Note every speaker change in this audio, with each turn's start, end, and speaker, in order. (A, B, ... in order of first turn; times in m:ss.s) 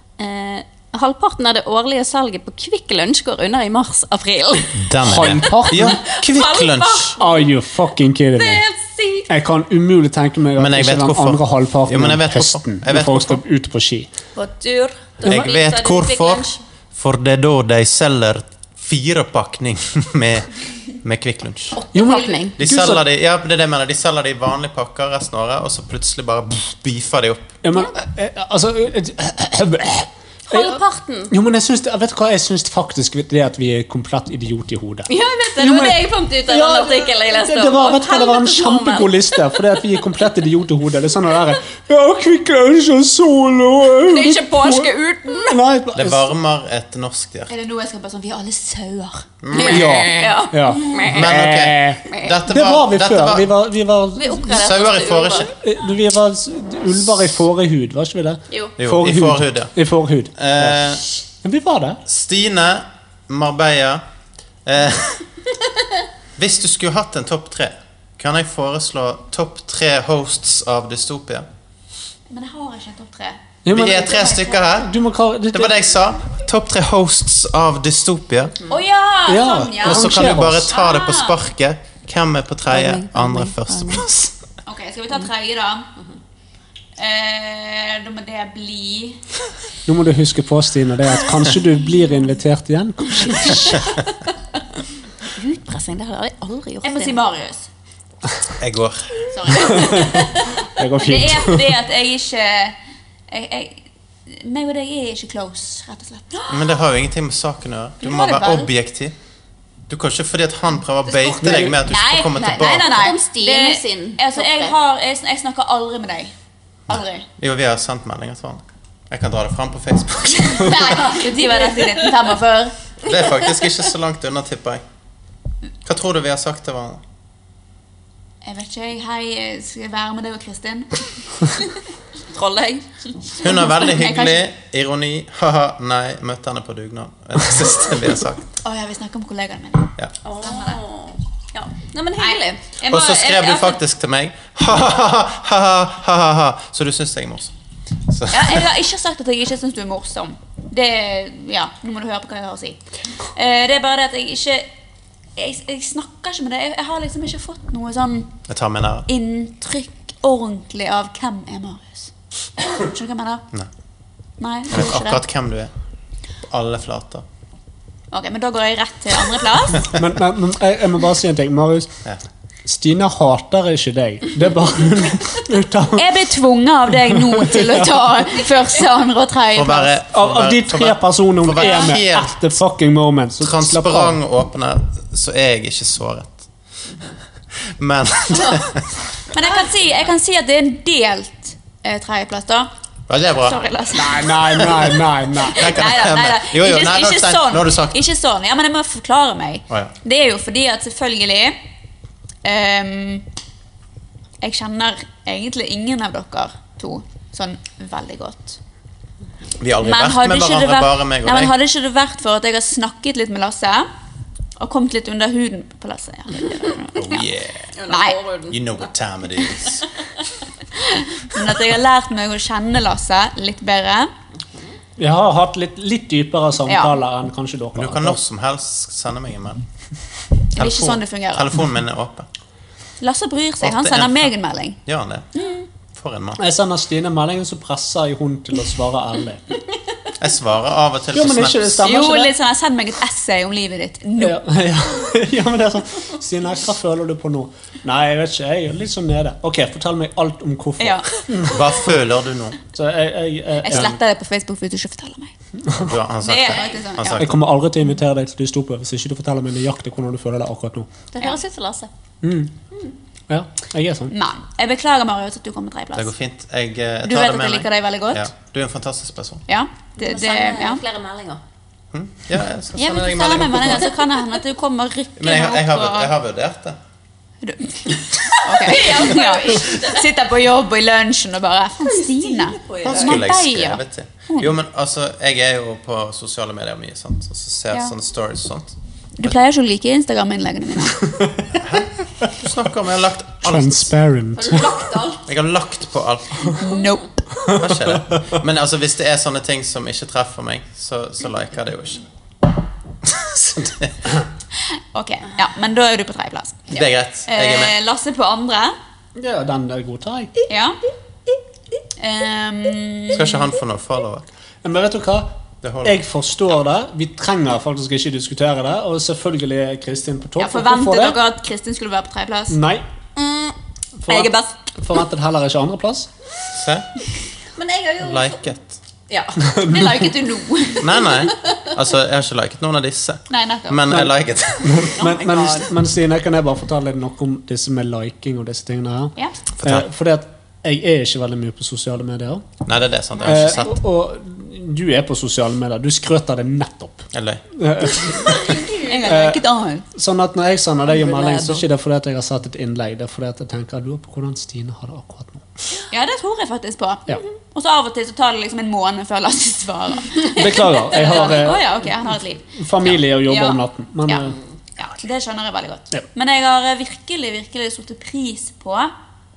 0:00.2-0:07.5 A
0:04.8-0:07.2 B
0:05.0-0:06.0 C
0:07.2-0:08.6 C
0:08.4-0:09.3 A
0:09.3-0:14.1 C
0:10.6-0:13.4 B
0:14.4-0:16.6 A
0:15.2-0:21.8 B
0:21.7-0:22.6 A
0:21.9-0:23.0 C
0:22.6-0:27.6 B
0:27.6-0:30.8 C
0:30.5-0:31.3 A
0:31.3-0:46.3 C
0:35.1-0:39.8 A
0:44.0-0:45.6 A
0:46.0-0:47.5 B
0:47.5-0:49.3 D
0:49.4-0:50.1 B
0:49.5-0:51.3 A
0:49.6-0:54.5 C
0:51.1-0:53.5 B
0:52.1-0:52.4 A
0:54.2-0:55.5 A
0:54.4-0:55.5 B
0:55.4-1:00.9 C
0:58.8-0:59.7 B
1:00.4-1:01.0 B
1:01.4-1:02.0 C
1:02.1-1:04.0 B
1:04.6-1:05.2 B
1:06.4-1:11.5 B
1:12.3-1:14.7 D
1:13.6-1:14.2 C
1:13.7-1:14.9 B
1:14.8-1:15.8 C
1:15.5-1:18.6 B
1:18.7-1:21.4 D
1:19.3-1:20.7 C
1:19.8-1:24.3 B
1:22.7-1:24.0 A
1:24.6-1:25.9 D
1:27.0-1:29.2 D
1:29.9-1:33.8 C
1:35.3-1:37.2 A
1:36.8-1:37.7 D
1:38.6-1:39.7 B
1:39.3-1:40.3 D
1:39.6-1:41.7 C
1:41.0-1:42.8 D
1:43.3-1:46.8 D
1:46.5-1:49.2 B
1:48.0-1:48.7 D
1:49.9-1:53.0 B
1:51.1-1:56.3 D
1:51.4-1:51.8 C
1:52.5-1:54.8 A
1:56.9-1:57.2 D
1:56.9-2:01.0 B
2:00.5-2:02.8 D
2:01.0-2:02.1 A
2:03.0-2:03.7 A
2:03.0-2:04.8 B
2:05.8-2:07.0 B
2:08.4-2:11.8 D
2:12.3-2:12.9 A
2:13.4-2:14.5 D
2:13.4-2:18.5 B
2:18.6-2:20.8 D
2:20.2-2:22.7 A
2:22.2-2:23.8 D
2:22.9-2:27.5 B
2:28.1-2:28.7 B
2:28.3-2:32.8 D
2:33.4-2:34.7 D
2:35.4-2:38.3 D
2:38.5-2:39.1 B
2:39.1-2:43.4 D
2:44.4-2:45.2 D
2:44.7-2:45.7 B
2:46.4-2:47.2 B
2:48.1-2:49.9 D
2:49.8-2:51.9 C
2:52.7-2:56.1 C
2:56.0-3:00.0 D
2:57.1-2:58.0 C
2:59.5-3:02.5 B
3:00.1-3:04.2 C
3:01.6-3:02.0 D
3:03.4-3:06.5 B
3:07.8-3:08.9 B
3:09.3-3:12.7 D
3:13.1-3:13.7 B
3:13.4-3:14.4 D
3:13.9-3:15.8 C
3:14.6-3:18.0 B
3:15.6-3:21.6 D
3:22.4-3:23.3 D
3:24.4-3:28.6 D
3:29.6-3:31.5 B
3:29.8-3:33.9 D
3:34.6-3:37.3 D
3:37.0-3:37.7 B
3:37.8-3:38.6 A
3:37.9-3:38.2 D
3:38.5-3:39.8 B
3:40.8-3:44.1 D
3:45.0-3:48.2 C
3:46.7-3:47.0 D
3:47.8-3:49.6 B
3:50.6-3:51.6 D
3:50.6-3:52.3 B
3:53.0-3:54.8 D
3:53.6-3:54.3 B
3:54.9-3:55.3 B
3:55.3-3:55.7 D
3:56.0-3:56.4 B
3:56.4-3:59.5 C
4:00.2-4:01.8 B
4:01.1-4:02.4 C
4:01.8-4:04.4 D
4:04.2-4:11.7 C
4:10.8-4:11.6 D
4:11.5-4:12.6 B
4:12.7-4:14.0 C
4:13.6-4:15.3 D
4:15.8-4:17.4 B
4:16.2-4:17.3 D
4:16.4-4:16.8 A
4:17.2-4:20.9 C
4:21.1-4:21.9 A
4:22.2-4:22.5 C
4:23.3-4:24.1 C
4:24.1-4:26.1 D
4:26.0-4:29.4 B
4:27.0-4:28.3 D
4:29.5-4:30.8 D
4:30.0-4:31.4 A
4:31.9-4:33.9 B
4:32.8-4:36.1 D
4:35.2-4:36.8 B
4:37.4-4:44.5 D
4:38.5-4:40.1 A
4:41.8-4:43.3 A
4:42.8-4:49.4 B
4:49.2-4:51.1 D
4:51.1-4:51.5 C
4:51.6-4:53.9 B
4:53.4-4:54.6 C
4:54.4-4:55.2 A
4:55.3-4:56.6 B
4:56.5-4:57.1 D
4:57.5-4:57.9 C
4:57.5-5:02.1 B
5:03.0-5:04.0 B
5:04.9-5:08.8 D
5:06.7-5:07.8 B
5:09.2-5:10.3 C
5:10.5-5:10.8 D
5:12.0-5:13.5 D
5:13.1-5:14.3 B
5:14.6-5:21.2 C
5:15.6-5:16.0 B
5:20.4-5:22.6 D
5:22.5-5:22.8 C
5:23.2-5:23.6 A
5:24.0-5:26.1 C
5:26.5-5:26.9 B
5:27.6-5:28.4 A
5:28.0-5:28.8 B
5:29.1-5:29.4 A
5:29.4-5:30.1 C
5:29.6-5:31.1 D
5:30.8-5:35.0 B
5:33.3-5:34.1 D
5:34.6-5:42.5 C
5:35.0-5:35.7 A
5:39.6-5:39.9 B
5:42.6-5:43.7 B
5:43.2-5:43.7 D
5:43.2-5:48.4 C
5:47.1-5:48.6 B
5:48.2-5:49.9 D
5:48.4-5:49.2 A
5:49.0-5:49.4 C
5:49.9-5:55.5 C
5:50.9-5:51.6 A
5:55.9-6:02.5 D
6:00.3-6:01.7 C
6:02.6-6:04.4 C
6:03.1-6:08.9 D